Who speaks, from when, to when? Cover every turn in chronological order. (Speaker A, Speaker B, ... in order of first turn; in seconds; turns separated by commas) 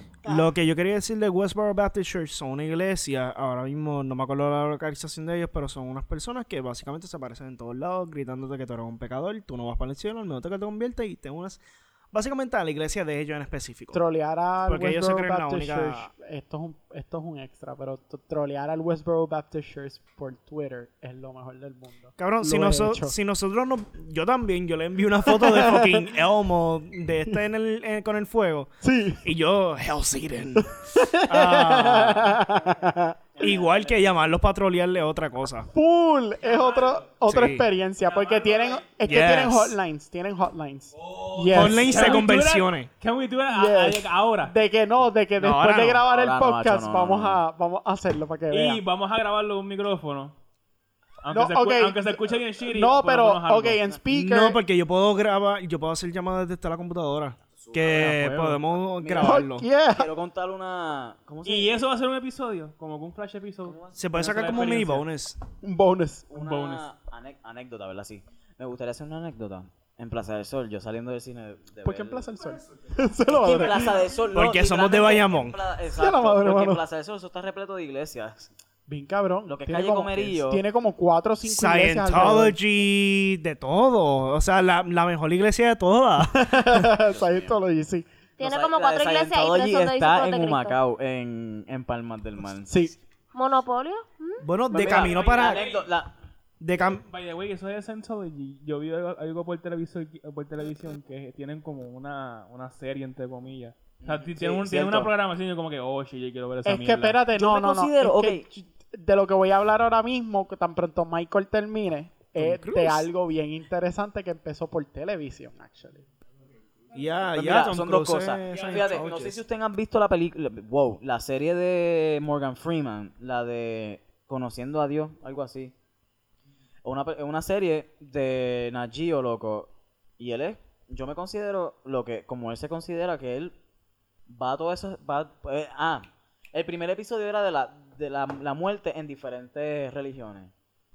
Speaker A: 0.2-11.6, Speaker A: 12.1-14.0, Speaker B: 13.9-23.1, Speaker A: 14.6-16.1, Speaker A: 22.2-28.7, Speaker B: 25.2-26.1, Speaker B: 28.8-29.2, Speaker A: 29.2-30.8, Speaker B: 30.7-33.4, Speaker A: 31.3-32.2, Speaker A: 33.4-35.7, Speaker C: 33.4-33.7, Speaker B: 35.7-42.2, Speaker D: 36.4-37.0, Speaker A: 37.2-37.7, Speaker D: 38.0-39.0, Speaker A: 39.0-39.8, Speaker D: 40.9-44.5, Speaker A: 41.5-42.9, Speaker B: 43.5-48.8, Speaker A: 45.4-46.0, Speaker C: 46.0-47.4, Speaker D: 48.5-50.3, Speaker D: 51.2-53.8, Speaker B: 51.3-54.6, Speaker A: 54.1-59.7, Speaker C: 57.5-58.1, Speaker C: 59.0-61.8, Speaker B: 59.2-60.1, Speaker D: 61.4-65.1, Speaker A: 63.9-65.4, Speaker B: 65.6-66.5, Speaker C: 66.3-72.3, Speaker D: 66.3-66.8, Speaker B: 71.8-73.9, Speaker C: 73.2-78.5, Speaker A: 74.3-75.6, Speaker B: 75.9-76.8, Speaker B: 78.9-82.5, Speaker C: 79.5-80.6, Speaker A: 81.4-86.4, Speaker B: 86.3-88.1, Speaker C: 86.9-87.6, Speaker E: 88.4-90.8, Speaker C: 88.4-92.8, Speaker B: 92.7-92.9, Speaker E: 93.3-94.5, Speaker A: 94.4-95.6, Speaker C: 94.7-96.1, Speaker D: 94.8-95.9, Speaker A: 96.6-97.0, Speaker D: 96.8-107.2, Speaker C: 104.0-105.1, Speaker B: 106.6-116.0, Speaker C: 107.3-108.5, Speaker A: 112.4-113.0, Speaker A: 116.9-119.4, Speaker C: 117.3-125.7, Speaker D: 118.5-118.9, Speaker C: 126.8-133.5, Speaker C: 134.3-140.5